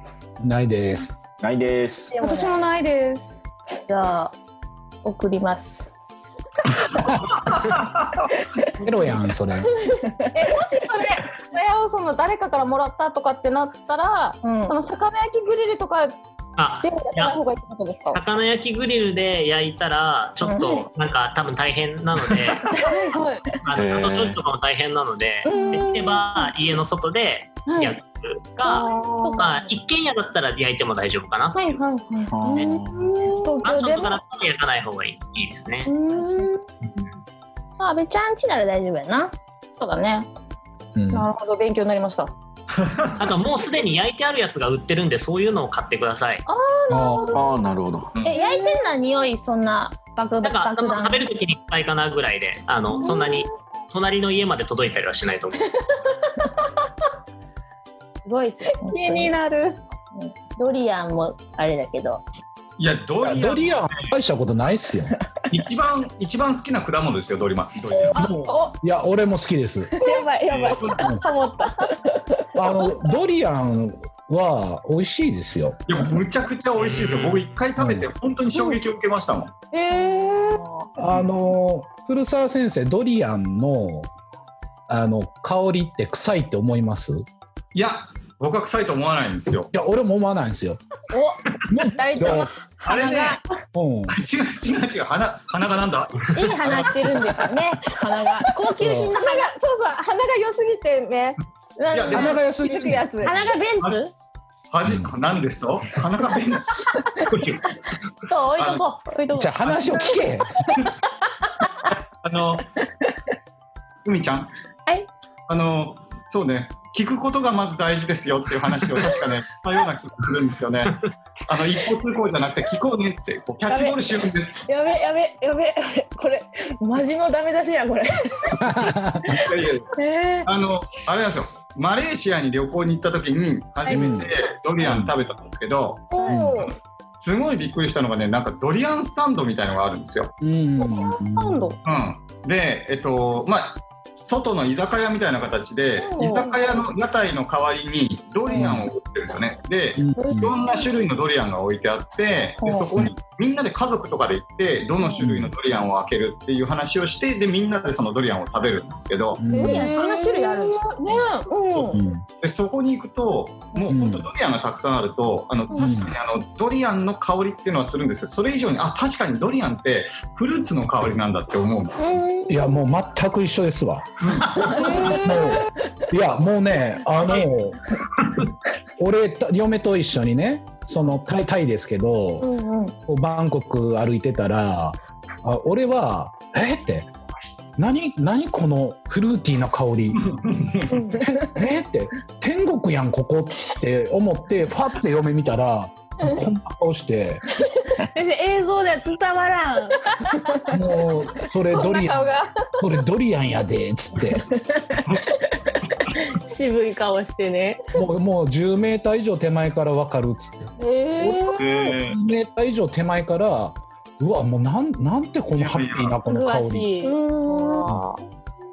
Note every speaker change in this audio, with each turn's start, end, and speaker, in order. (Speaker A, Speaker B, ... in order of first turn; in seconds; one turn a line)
Speaker A: 0.4-1.1
Speaker B: 1.4-2.2
Speaker C: 2.1-2.6
Speaker D: 2.1-3.4
Speaker C: 3.9-4.3
Speaker C: 5.0-5.9
Speaker E: 7.1-8.3
Speaker A: 8.8-9.7
Speaker C: 10.0-10.4
Speaker D: 10.3-16.1
Speaker C: 14.4-14.7
Speaker F: 16.6-17.4
Speaker D: 16.8-18.2
Speaker F: 18.1-22.8
Speaker C: 20.4-20.9
Speaker D: 22.7-23.4
Speaker F: 23.6-31.8
Speaker B: 23.7-24.4
Speaker D: 25.4-26.5
Speaker C: 25.4-25.9
Speaker D: 27.6-27.9
Speaker D: 28.6-29.5
Speaker C: 29.2-29.6
Speaker D: 31.5-33.7
Speaker B: 32.3-33.1
Speaker C: 33.4-34.2
Speaker F: 33.6-35.9
Speaker D: 35.9-36.6
Speaker C: 36.1-36.5
Speaker C: 37.8-39.3
Speaker D: 39.8-40.3
Speaker A: 40.9-41.3
Speaker D: 41.1-42.3
Speaker E: 42.8-43.3
Speaker F: 43.2-46.4
Speaker D: 46.5-47.6
Speaker A: 46.9-47.4
Speaker B: 47.3-48.1
Speaker C: 48.2-51.2
Speaker D: 48.3-48.8
Speaker F: 50.4-55.7
Speaker D: 53.0-53.5
Speaker C: 58.2-59.3
Speaker D: 58.8-59.8
Speaker C: 60.1-62.2
Speaker E: 62.8-64.1
Speaker A: 63.2-65.1
Speaker E: 65.5-68.3
Speaker D: 68.1-68.7
Speaker A: 68.1-69.9
Speaker C: 70.0-72.2
Speaker E: 70.5-71.1
Speaker A: 72.5-76.2
Speaker E: 75.9-79.5
Speaker F: 76.8-77.5
Speaker A: 77.8-78.1
Speaker D: 79.7-80.7
Speaker C: 80.3-80.7
Speaker A: 81.0-84.1
Speaker A: 84.9-87.2
Speaker E: 87.7-89.7
Speaker A: 89.7-90.8
Speaker C: 91.1-93.5
Speaker A: 91.7-92.5
Speaker E: 92.8-93.4
Speaker A: 93.7-94.2
Speaker E: 94.1-97.5
Speaker C: 96.3-99.5
Speaker D: 98.4-101.4
Speaker A: 98.8-99.2
Speaker C: 101.8-102.4
Speaker E: 101.9-102.3
Speaker A: 102.1-103.1
Speaker D: 102.5-103.5
Speaker C: 103.2-104.1
Speaker E: 104.7-107.7
Speaker A: 104.8-105.1
Speaker C: 108.2-109.6
Speaker E: 108.5-108.8
Speaker A: 109.3-110.5
Speaker E: 109.6-110.0
Speaker E: 112.2-112.7
Speaker E: 114.0-114.5
Speaker E: 115.5-124.6
Speaker C: 123.7-124.0
Speaker C: 124.6-128.9
Speaker A: 128.5-129.4
Speaker E: 129.3-129.9
Speaker C: 129.9-130.5
Speaker E: 130.4-136.7
Speaker A: 133.9-134.3
Speaker A: 134.8-135.1
Speaker D: 136.1-136.7
Speaker A: 136.2-136.7
Speaker E: 137.2-140.3
Speaker A: 140.4-141.6
Speaker D: 140.8-141.8
Speaker E: 141.8-159.4
Speaker D: 146.0-146.7
Speaker A: 148.5-148.9
Speaker A: 150.0-150.6
Speaker D: 150.2-150.8
Speaker A: 155.2-155.5
Speaker A: 159.4-160.0
Speaker D: 159.5-162.0
Speaker C: 159.5-160.8
Speaker E: 161.7-172.2
Speaker A: 161.9-162.2
Speaker A: 163.9-164.3
Speaker A: 165.8-166.2
Speaker A: 172.5-177.8
Speaker E: 174.2-174.7
Speaker D: 174.7-175.7
Speaker C: 174.8-175.5
Speaker A: 179.0-182.5
Speaker C: 182.4-182.9
Speaker A: 183.1-187.1
Speaker A: 187.8-190.3
Speaker E: 190.1-191.1
Speaker A: 191.2-197.4
Speaker C: 198.0-200.6
Speaker A: 200.7-204.4
Speaker D: 201.7-202.8
Speaker C: 206.2-207.8
Speaker A: 207.9-210.7
Speaker D: 210.8-211.9
Speaker E: 211.2-212.2
Speaker A: 212.0-216.9
Speaker E: 215.6-216.2
Speaker C: 216.3-217.9
Speaker D: 217.0-218.2